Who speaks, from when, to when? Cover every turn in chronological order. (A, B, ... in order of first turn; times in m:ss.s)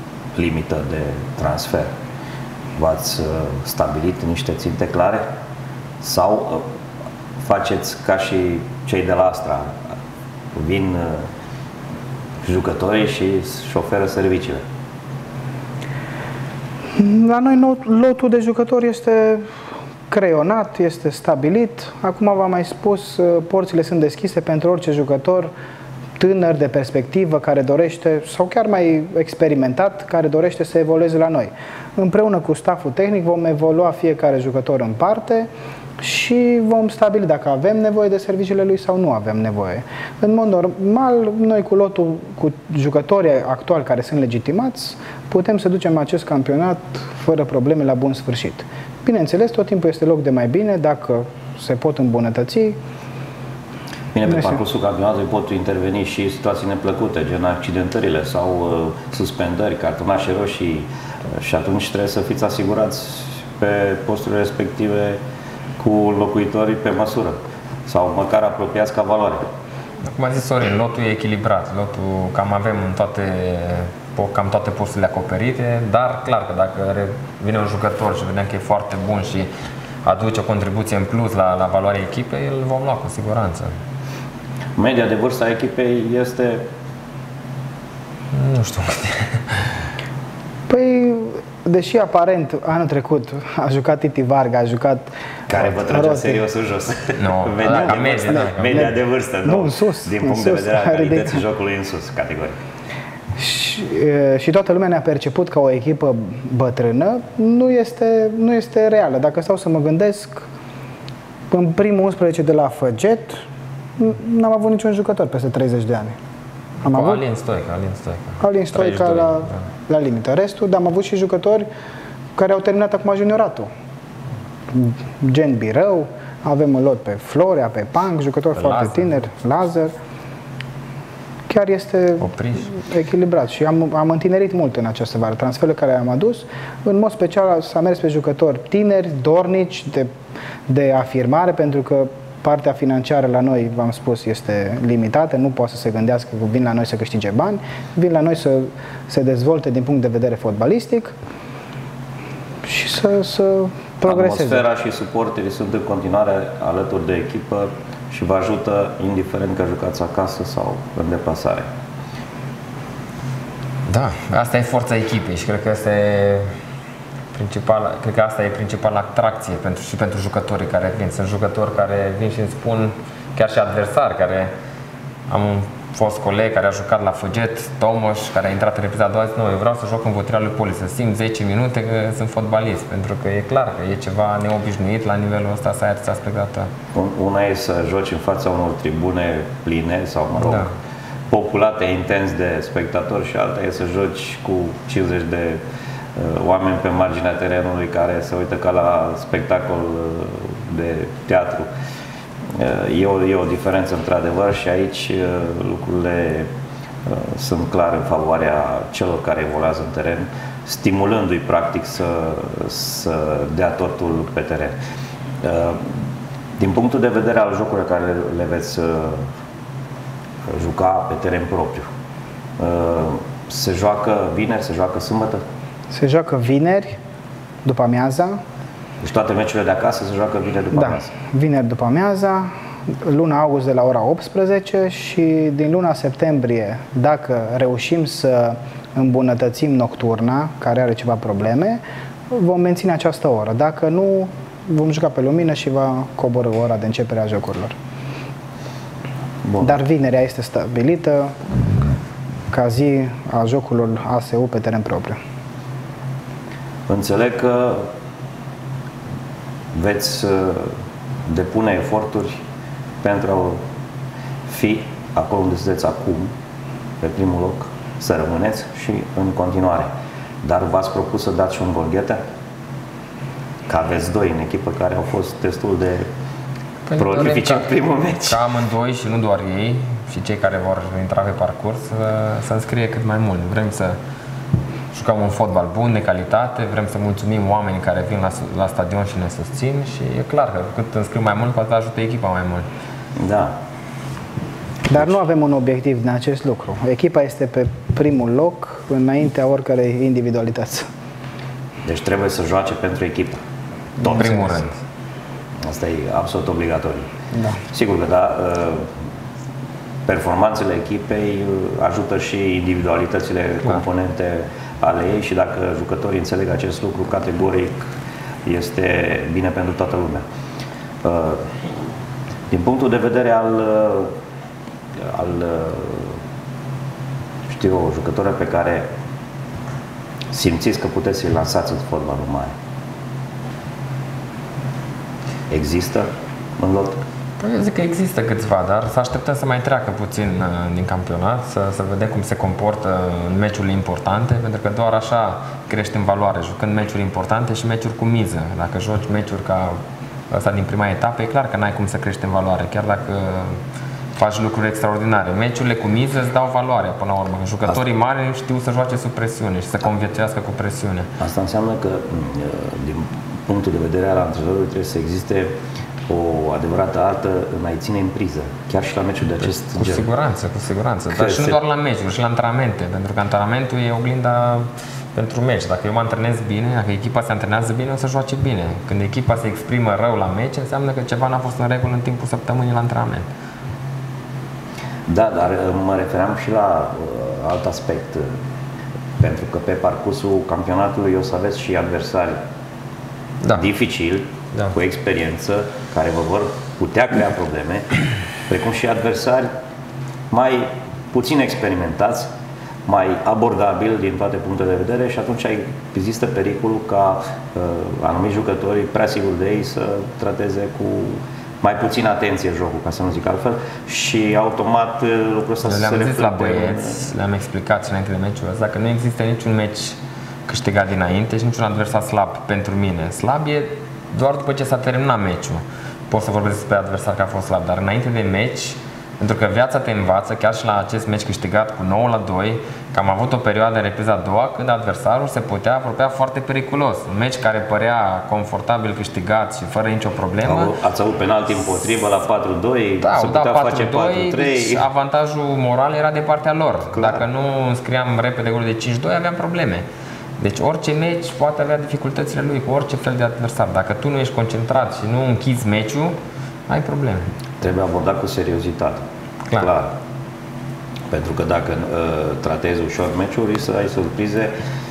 0:00.3-0:01.9 A
0:02.8-0:05.2 A
0:06.0-0:06.6 A
0:07.4-0:09.8 A
0:10.5-0:11.2 A
0:12.4-0:14.6 A
0:16.9-0:19.5 B
0:20.1-0:25.5 B
0:26.2-0:35.5 B
0:36.0-0:52.8 B
0:54.1-1:05.2 A
0:54.3-0:54.6 B
1:05.8-1:09.4 A
1:10.0-1:19.5 C
1:20.0-1:23.7 C
1:24.8-1:26.6 A
1:28.3-1:29.6 C
1:30.7-1:36.4 B
1:35.5-1:42.6 A
1:37.2-1:38.9 C
1:37.7-1:38.9 B
1:39.4-1:41.4 B
1:43.4-1:50.5 B
1:51.5-1:53.4 B
1:54.0-1:56.2 B
1:56.8-1:59.6 C
1:56.8-1:57.2 B
1:58.4-2:01.7 B
2:02.4-2:03.7 B
2:04.7-2:09.9 B
2:08.6-2:09.1 C
2:11.5-2:20.1 B
2:12.2-2:12.7 C
2:20.7-2:31.1 B
2:32.6-2:34.6 B
2:34.0-2:41.6 A
2:43.9-2:46.5 C
2:47.3-2:54.5 C
2:55.3-3:06.7 C
3:06.9-3:10.7 A
3:10.4-3:10.7 C
3:11.3-3:15.6 A
3:16.2-3:21.7 A
3:22.5-3:26.5 A
3:27.0-3:34.7 A
3:35.4-3:35.9 A
3:36.6-3:39.3 A
3:40.5-3:41.8 A
3:42.6-3:45.4 A
3:45.9-3:47.0 B
3:47.6-3:48.4 B
3:49.0-3:51.1 A
3:50.7-4:07.8 B
4:09.4-4:09.8 A
4:09.6-4:11.4 B
4:12.5-4:15.2 B
4:16.9-4:17.9 A
4:19.7-4:20.7 A
4:21.3-4:22.4 A
4:23.0-4:23.6 A
4:24.5-4:26.3 A
4:27.0-4:29.9 A
4:30.4-4:32.2 A
4:33.7-4:36.1 A
4:36.9-4:37.7 C
4:37.0-4:38.4 A
4:38.2-4:44.0 C
4:44.9-4:52.7 C
4:53.2-4:53.5 A
4:54.9-5:00.9 B
5:01.8-5:03.4 A
5:04.0-5:04.8 C
5:05.6-5:07.1 A
5:07.7-5:08.9 A
5:10.0-5:17.8 A
5:18.4-5:20.2 A
5:21.0-5:21.5 A
5:22.5-5:24.1 A
5:25.0-5:26.2 A
5:27.5-5:28.9 A
5:30.3-5:32.5 A
5:35.5-5:36.1 A
5:36.6-5:37.0 A
5:37.4-5:53.6 C
5:54.2-6:01.1 C
6:01.2-6:05.5 A
6:06.1-6:10.0 A
6:09.8-6:23.3 C
6:11.1-6:11.6 A
6:25.1-6:28.3 A
6:29.2-6:32.4 A
6:33.5-6:37.9 A
6:38.5-6:39.5 A
6:40.3-6:42.3 A
6:42.8-6:57.1 A
6:55.6-7:20.7 C
7:20.4-7:24.8 A
7:23.0-7:29.8 C
7:26.9-7:27.2 A
7:30.4-7:36.2 C
7:36.7-7:37.2 C
7:37.6-7:39.0 A
7:39.6-7:39.9 A
7:41.1-7:44.5 A